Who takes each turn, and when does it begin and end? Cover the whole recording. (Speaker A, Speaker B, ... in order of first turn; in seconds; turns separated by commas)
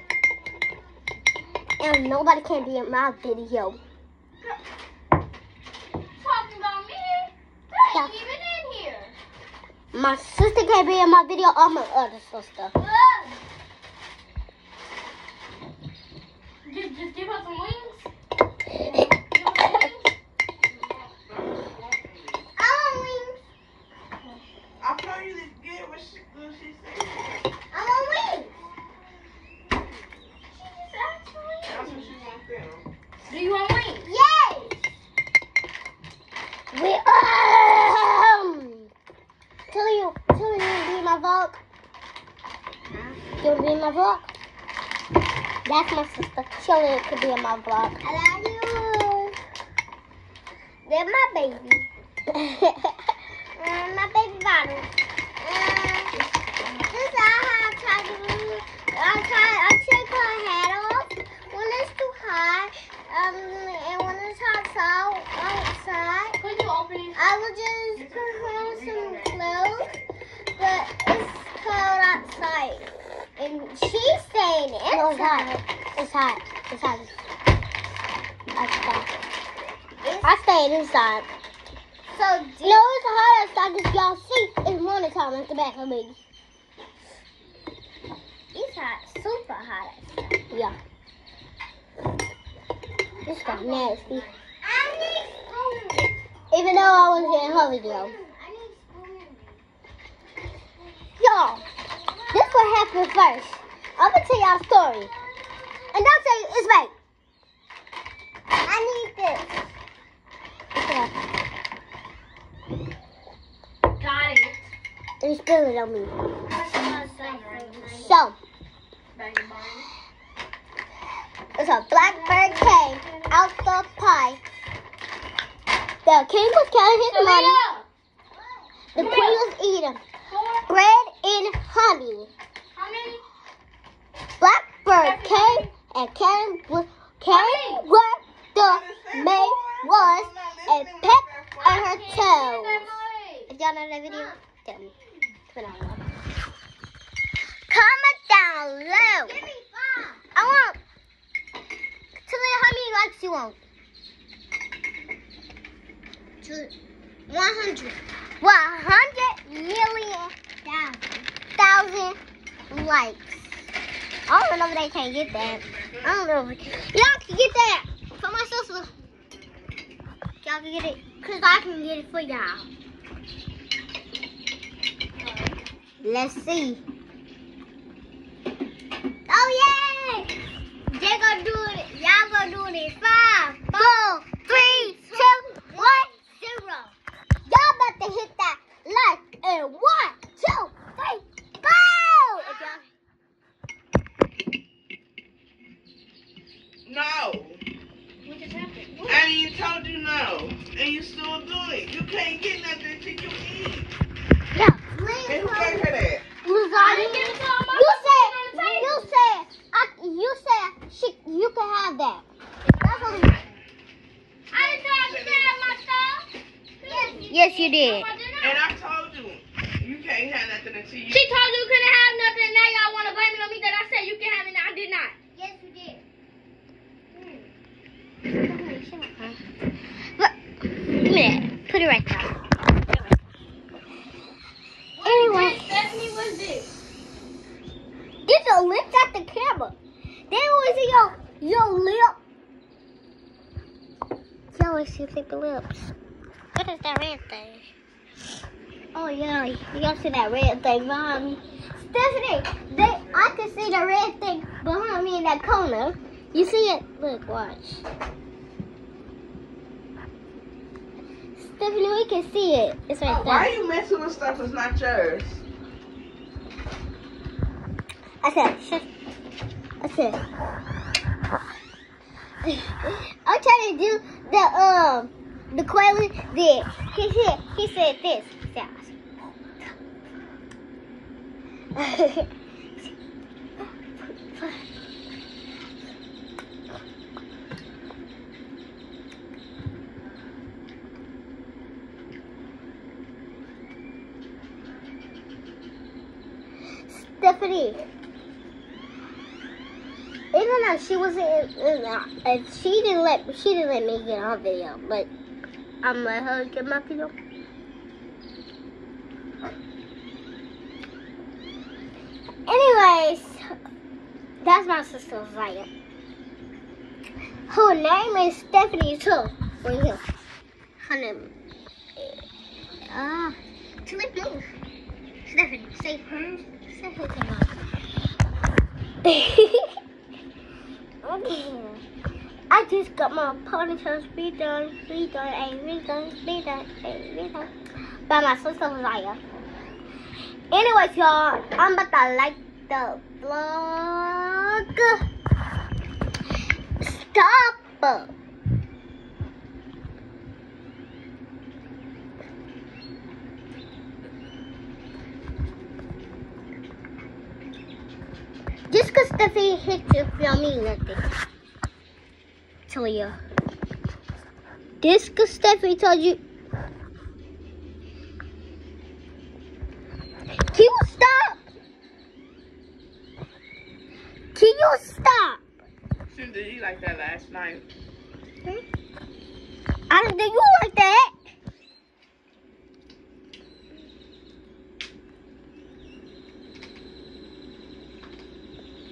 Speaker A: 1.8-3.8, Speaker B: 6.1-9.2, Speaker A: 9.9-12.7, Speaker B: 12.8-13.4, Speaker B: 16.6-18.1, Speaker B: 18.8-20.1, Speaker C: 20.8-22.4, Speaker A: 22.6-23.4, Speaker C: 24.8-27.5, Speaker A: 27.7-28.5, Speaker B: 30.5-32.1, Speaker C: 31.6-32.8, Speaker B: 33.2-34.1, Speaker A: 34.0-34.8, Speaker A: 36.7-38.9, Speaker A: 39.7-41.6, Speaker B: 42.9-43.2, Speaker A: 43.3-44.2, Speaker A: 45.6-49.4, Speaker A: 50.9-52.9, Speaker A: 53.6-54.9, Speaker A: 55.4-56.1, Speaker A: 56.9-66.4, Speaker B: 66.4-67.2, Speaker A: 67.1-69.9, Speaker C: 67.9-70.1, Speaker A: 70.5-77.1, Speaker B: 74.9-75.6, Speaker A: 78.5-79.1, Speaker A: 80.2-81.3, Speaker B: 82.5-82.8, Speaker A: 82.6-86.2, Speaker A: 88.5-90.8, Speaker A: 93.2-99.4, Speaker B: 93.3-94.4, Speaker B: 96.7-98.2, Speaker A: 101.2-101.6, Speaker B: 102.1-102.7, Speaker A: 102.3-105.1, Speaker A: 105.9-106.9, Speaker A: 108.6-109.5, Speaker A: 110.7-111.1, Speaker B: 114.0-114.6, Speaker A: 115.2-116.1, Speaker B: 116.5-118.2, Speaker A: 117.2-118.3, Speaker B: 119.1-119.9, Speaker A: 121.6-124.4, Speaker B: 121.9-123.5, Speaker A: 126.0-127.6, Speaker B: 127.0-127.8, Speaker A: 128.9-130.0, Speaker B: 128.9-129.5, Speaker B: 130.3-130.7, Speaker A: 130.7-132.3, Speaker B: 132.7-133.2, Speaker A: 134.4-142.9, Speaker B: 134.9-135.7, Speaker B: 137.3-137.9, Speaker C: 138.6-141.9, Speaker B: 141.6-143.5, Speaker A: 143.5-144.9, Speaker B: 144.1-144.4, Speaker A: 145.5-146.0, Speaker A: 147.7-149.4, Speaker B: 149.0-149.4, Speaker A: 150.2-150.8, Speaker A: 152.2-153.6, Speaker A: 156.4-156.7, Speaker A: 157.3-162.2, Speaker A: 162.7-163.6, Speaker A: 164.3-168.9, Speaker C: 165.2-166.2, Speaker C: 169.2-169.5, Speaker A: 170.4-172.7, Speaker B: 175.2-175.6, Speaker A: 176.0-176.8, Speaker A: 179.3-180.3, Speaker A: 180.9-186.9, Speaker B: 184.4-186.2, Speaker A: 187.4-192.8, Speaker B: 192.4-192.7, Speaker C: 196.8-197.6, Speaker B: 198.2-199.2, Speaker C: 199.1-203.9, Speaker A: 204.5-205.9, Speaker C: 205.2-206.2, Speaker A: 206.4-212.2, Speaker B: 206.7-209.1, Speaker B: 212.6-213.6, Speaker A: 212.8-213.3, Speaker B: 214.5-216.3, Speaker C: 214.6-215.8, Speaker B: 216.8-218.6, Speaker A: 216.8-218.1, Speaker C: 218.4-221.3, Speaker B: 221.1-225.1, Speaker A: 225.3-226.0, Speaker B: 227.1-227.5, Speaker A: 228.4-229.4, Speaker A: 230.9-232.3, Speaker B: 235.0-236.7, Speaker A: 235.0-235.8, Speaker A: 238.2-239.7, Speaker A: 240.3-242.2, Speaker A: 244.5-245.9, Speaker A: 246.5-247.7, Speaker A: 248.9-257.8, Speaker C: 252.8-253.3, Speaker A: 261.4-263.5, Speaker C: 263.1-265.4, Speaker A: 268.2-268.9, Speaker A: 269.8-270.2, Speaker A: 272.4-278.9, Speaker A: 281.7-282.3, Speaker A: 284.1-284.6, Speaker A: 296.9-297.8, Speaker A: 300.3-305.1, Speaker A: 305.8-307.1, Speaker A: 312.5-313.4, Speaker A: 314.4-315.7, Speaker A: 317.5-320.0, Speaker A: 320.8-321.3, Speaker A: 322.9-324.5, Speaker A: 325.2-326.1, Speaker C: 326.1-326.4, Speaker A: 326.6-327.5, Speaker A: 329.0-329.7, Speaker A: 331.0-331.8, Speaker A: 332.5-337.5, Speaker A: 338.1-339.2, Speaker A: 340.5-345.0, Speaker A: 346.8-348.1, Speaker A: 358.7-361.0, Speaker A: 362.7-363.2, Speaker A: 364.8-366.2, Speaker A: 370.5-371.4, Speaker A: 374.3-375.4, Speaker C: 376.1-377.6, Speaker A: 379.9-381.1